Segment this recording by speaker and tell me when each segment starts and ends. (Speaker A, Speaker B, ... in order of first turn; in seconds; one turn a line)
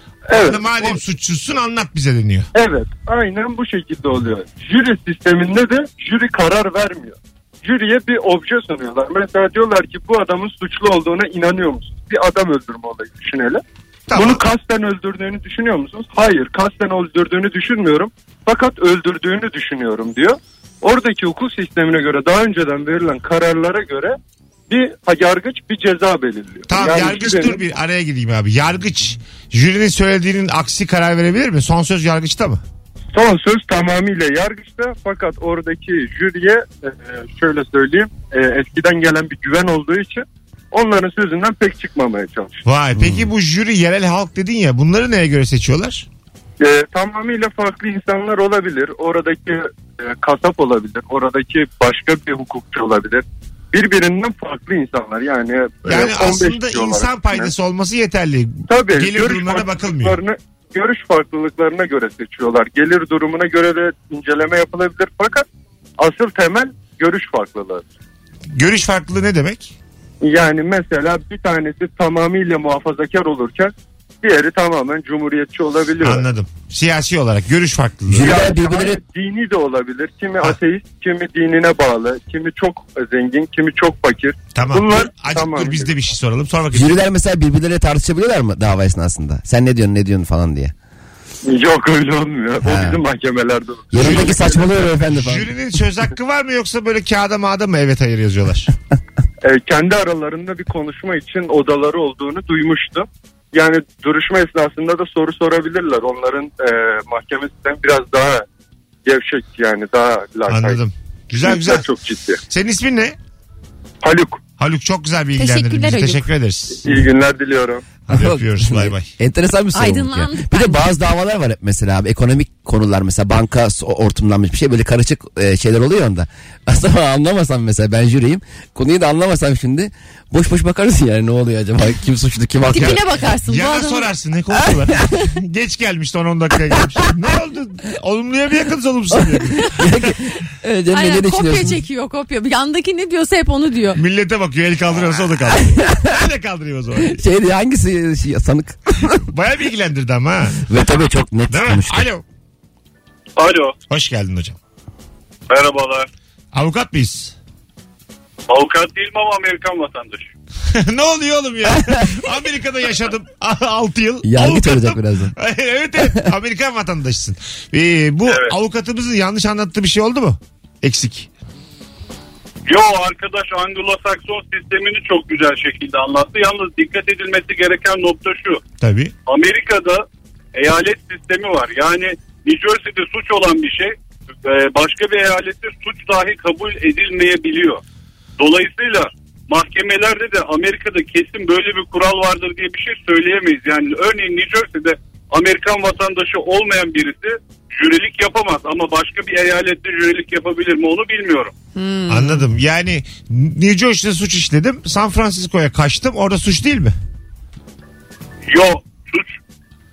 Speaker A: 0.3-1.0
Speaker B: 0.3-2.5
Speaker A: 2.5-13.6
Speaker B: 14.1-14.4
Speaker A: 14.1-24.1
Speaker A: 24.7-27.6
Speaker B: 26.7-32.6
Speaker A: 33.1-42.6
Speaker B: 42.6-46.1
Speaker C: 43.0-43.3
Speaker A: 46.6-57.5
Speaker B: 55.9-60.2
Speaker A: 58.7-65.5
Speaker A: 66.0-67.8
Speaker B: 68.5-69.7
Speaker A: 70.2-76.2
Speaker B: 76.0-78.3
Speaker C: 78.1-79.0
Speaker A: 78.1-85.9
Speaker B: 84.5-87.0
Speaker C: 86.7-90.7
Speaker A: 91.5-94.7
Speaker C: 92.6-93.0
Speaker C: 93.9-95.5
Speaker B: 95.1-98.7
Speaker A: 99.4-108.5
Speaker A: 109.0-110.8
Speaker B: 110.5-111.8
Speaker A: 111.4-112.4
Speaker B: 112.5-113.2
Speaker A: 114.0-114.4
Speaker B: 114.6-116.8
Speaker D: 115.3-116.3
Speaker A: 116.8-117.9
Speaker B: 118.1-119.1
Speaker C: 118.1-133.0
Speaker D: 119.7-120.8
Speaker D: 132.7-134.1
Speaker B: 132.8-139.8
Speaker C: 139.1-141.8
Speaker D: 140.9-144.0
Speaker B: 143.9-147.2
Speaker C: 145.7-146.0
Speaker C: 147.1-149.2
Speaker B: 149.2-150.7
Speaker C: 150.7-152.1
Speaker B: 151.5-152.2
Speaker E: 153.4-153.8
Speaker B: 153.9-154.6
Speaker E: 155.5-156.1
Speaker B: 156.5-157.3
Speaker E: 158.5-160.3
Speaker B: 160.7-171.3
Speaker C: 164.2-165.3
Speaker E: 168.3-168.5
Speaker E: 172.7-178.6
Speaker B: 178.8-179.1
Speaker E: 179.3-187.8
Speaker E: 188.4-201.5
Speaker D: 201.8-202.5
Speaker B: 202.1-206.9
Speaker E: 208.5-209.4